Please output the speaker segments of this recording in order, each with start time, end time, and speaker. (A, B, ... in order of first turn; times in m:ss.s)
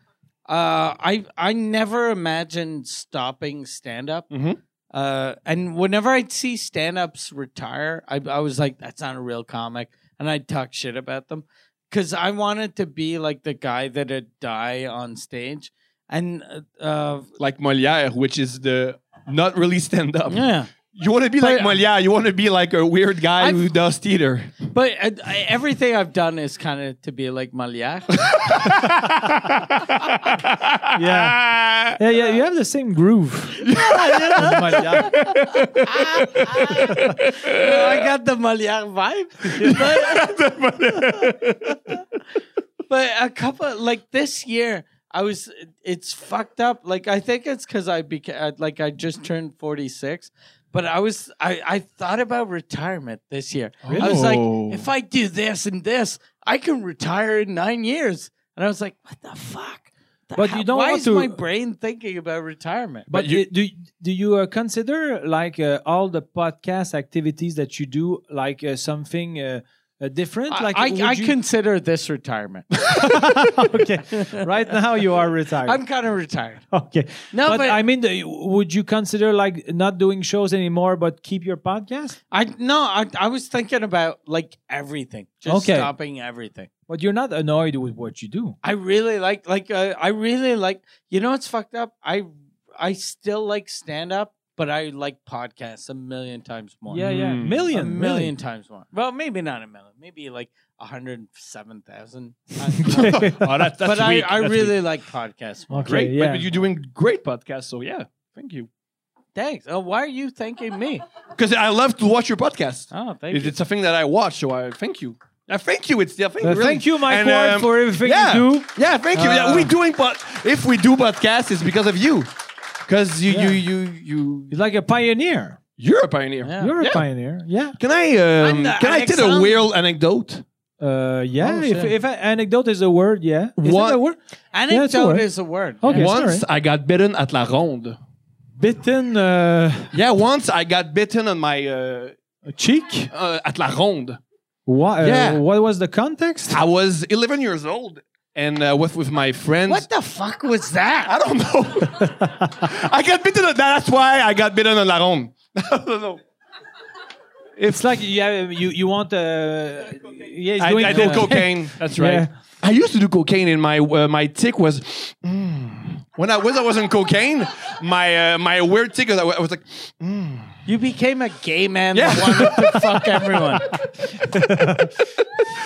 0:00.5-0:04.3 A
0:04.3-0:04.6 B
0:04.9-0:17.3 A
0:17.4-0:24.6 B
0:20.3-0:20.7 A
0:21.4-0:21.8 A
0:23.4-0:23.6 A
0:24.7-0:28.2 A
0:28.3-0:32.0 B
0:30.9-0:31.4 C
0:32.0-0:33.8 C
0:33.6-0:38.0 B
0:33.7-0:35.2 A
0:34.4-0:35.3 C
0:35.8-0:40.3 A
0:36.9-0:37.2 C
0:39.6-0:42.0 B
0:39.6-0:39.8 C
0:42.9-1:03.1 A
0:53.8-0:54.9 B
0:53.8-0:54.3 C
1:00.4-1:01.4 C
1:03.1-1:11.4 C
1:03.1-1:03.4 B
1:10.5-1:12.7 A
1:12.9-1:15.8 C
1:14.1-1:14.4 A
1:15.6-1:16.6 A
1:16.7-1:22.2 C
1:17.3-1:17.8 A
1:22.3-1:26.7 A
1:25.5-1:25.9 C
1:26.9-1:28.6 C
1:28.6-1:37.1 A
1:36.9-1:38.3 C
1:37.0-1:37.7 B
1:37.7-1:46.0 A
1:42.8-1:43.7 C
1:42.9-1:44.8 B
1:45.7-1:46.4 C
1:45.8-1:48.7 B
1:49.4-1:51.0 A
1:51.4-2:02.3 B
1:52.9-1:53.6 A
1:56.4-1:59.7 C
2:02.8-2:04.5 B
2:03.3-2:03.6 C
2:04.5-2:05.6 C
2:05.8-2:07.0 B
2:06.4-2:06.8 A
2:06.6-2:07.8 C
2:07.8-2:10.4 B
2:08.4-2:09.7 A
2:10.8-2:14.2 C
2:11.4-2:11.9 A
2:13.6-2:14.0 B
2:14.5-2:16.1 A
2:14.7-2:15.2 C
2:15.8-2:16.4 C
2:15.9-2:18.0 B
2:18.6-2:19.9 C
2:19.9-2:22.2 B
2:22.5-2:23.1 C
2:23.1-2:24.2 B
2:24.7-2:26.6 C
2:25.0-2:25.4 B
2:26.5-2:29.9 B
2:29.7-2:31.1 A
2:31.1-2:36.2 B
2:32.0-2:32.6 C
2:37.6-2:42.3 C
2:40.6-2:50.6 B
2:40.8-2:41.3 A
2:50.7-2:53.7 A
2:51.9-2:53.8 B
2:54.3-2:54.9 C